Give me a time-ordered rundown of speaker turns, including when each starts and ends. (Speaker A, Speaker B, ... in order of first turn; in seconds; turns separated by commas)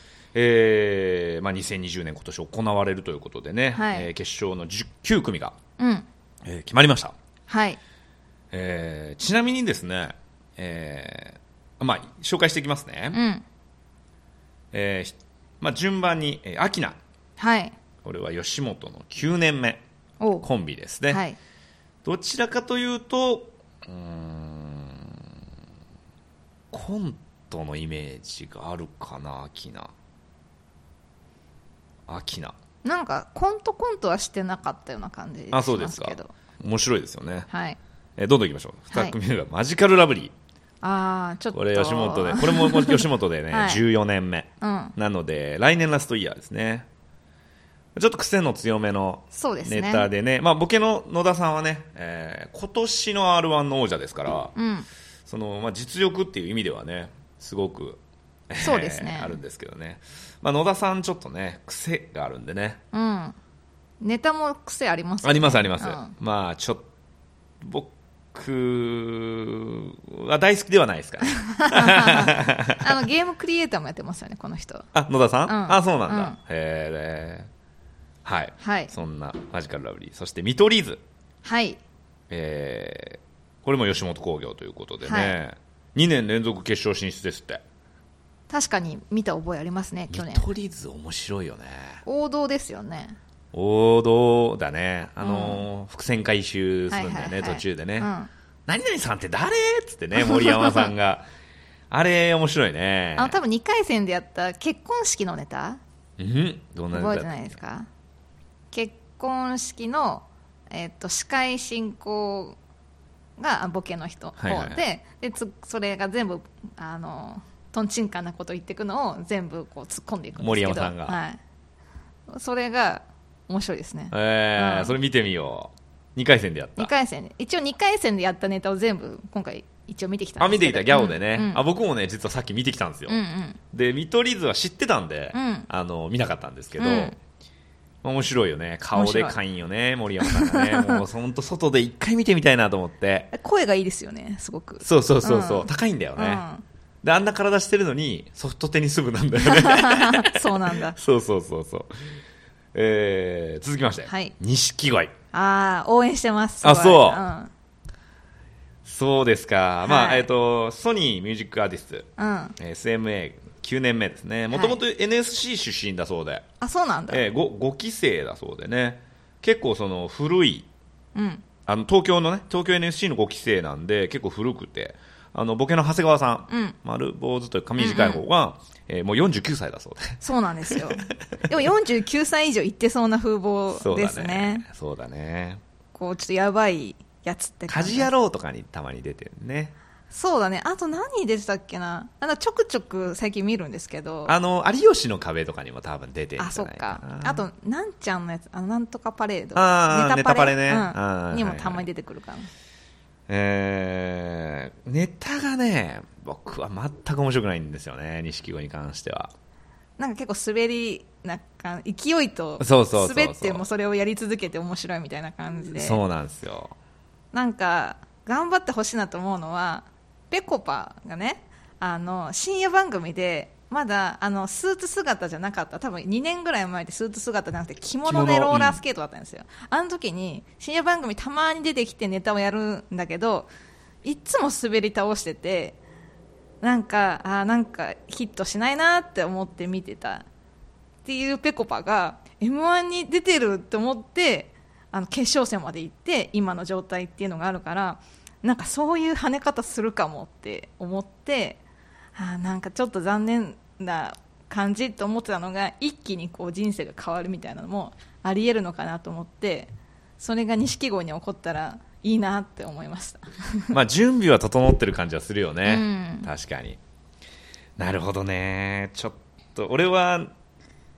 Speaker A: 0.3-5.5, Speaker B: 3.7-4.1, Speaker B: 5.8-6.1, Speaker A: 6.4-7.1, Speaker B: 7.5-7.8, Speaker A: 8.5-13.2, Speaker B: 13.1-13.4, Speaker A: 14.7-17.0, Speaker B: 17.4-17.7, Speaker A: 18.0-19.8, Speaker B: 20.2-20.4, Speaker A: 20.4-21.2, Speaker B: 21.1-21.4, Speaker A: 22.0-25.2, Speaker A: 26.7-29.9, Speaker A: 32.1-32.5, Speaker B: 32.8-36.3, Speaker A: 35.5-37.5, Speaker B: 37.5-37.8, Speaker A: 38.2-40.3, Speaker B: 40.8-43.8, Speaker A: 41.5-46.9, Speaker B: 44.6-44.9, Speaker A: 47.9-54.5, Speaker B: 49.3-50.1, Speaker B: 54.5-54.9, Speaker A: 55.2-58.0, Speaker A: 58.5-62.8, Speaker B: 58.6-59.4, Speaker B: 62.9-63.4, Speaker B: 64.0-66.1, Speaker A: 65.2-66.9, Speaker A: 67.6-72.9, Speaker B: 71.3-74.9, Speaker A: 74.9-77.5, Speaker B: 75.5-76.4, Speaker A: 78.2-81.0, Speaker B: 78.6-78.9, Speaker B: 81.4-81.8, Speaker A: 82.3-87.6, Speaker B: 85.0-85.3, Speaker B: 88.5-90.5, Speaker A: 90.1-92.0, Speaker B: 92.0-93.2, Speaker A: 93.5-98.1, Speaker B: 95.2-95.6, Speaker B: 96.9-98.3, Speaker A: 98.7-101.2, Speaker B: 100.2-100.9, Speaker A: 101.9-103.4, Speaker B: 103.2-105.8, Speaker A: 106.2-107.6, Speaker B: 106.9-107.9, Speaker B: 108.7-112.6, Speaker B: 113.4-121.4, Speaker A: 114.4-114.8, Speaker A: 120.4-121.2, Speaker B: 122.3-125.0, Speaker A: 124.1-126.9, Speaker B: 126.8-131.6, Speaker A: 130.4-133.2, Speaker B: 133.1-133.6, Speaker A: 133.7-137.2, Speaker B: 135.3-135.7, Speaker B: 136.8-137.1, Speaker A: 138.0-143.3, Speaker B: 138.9-139.3, Speaker B: 140.2-141.0, Speaker B: 143.3-146.6, Speaker A: 144.8-146.4, Speaker A: 147.0-152.2, Speaker B: 149.4-150.9, Speaker A: 152.7-155.1, Speaker B: 154.1-154.3, Speaker B: 155.3-157.5, Speaker A: 156.6-157.2, Speaker A: 158.8-166.4, Speaker B: 159.8-160.2, Speaker B: 162.2-162.6, Speaker B: 164.5-164.8, Speaker B: 166.6-167.2, Speaker A: 167.1-170.7, Speaker B: 171.1-171.4, Speaker A: 171.7-180.9, Speaker B: 176.5-176.8, Speaker B: 177.8-178.2, Speaker B: 180.2-184.6, Speaker A: 183.7-185.6, Speaker B: 185.9-188.1, Speaker A: 187.7-189.7, Speaker B: 190.1-194.3, Speaker A: 194.2-197.4, Speaker B: 196.4-202.5, Speaker A: 199.5-201.9, Speaker A: 203.3-209.3, Speaker B: 210.0-216.0, Speaker A: 212.6-213.6, Speaker A: 215.8-216.7, Speaker B: 217.3-233.5, Speaker A: 228.0-228.8, Speaker B: 234.0-235.8, Speaker B: 236.6-240.2, Speaker B: 241.0-251.6, Speaker B: 252.1-263.7, Speaker A: 263.7-266.8, Speaker B: 265.6-266.3, Speaker A: 267.8-270.3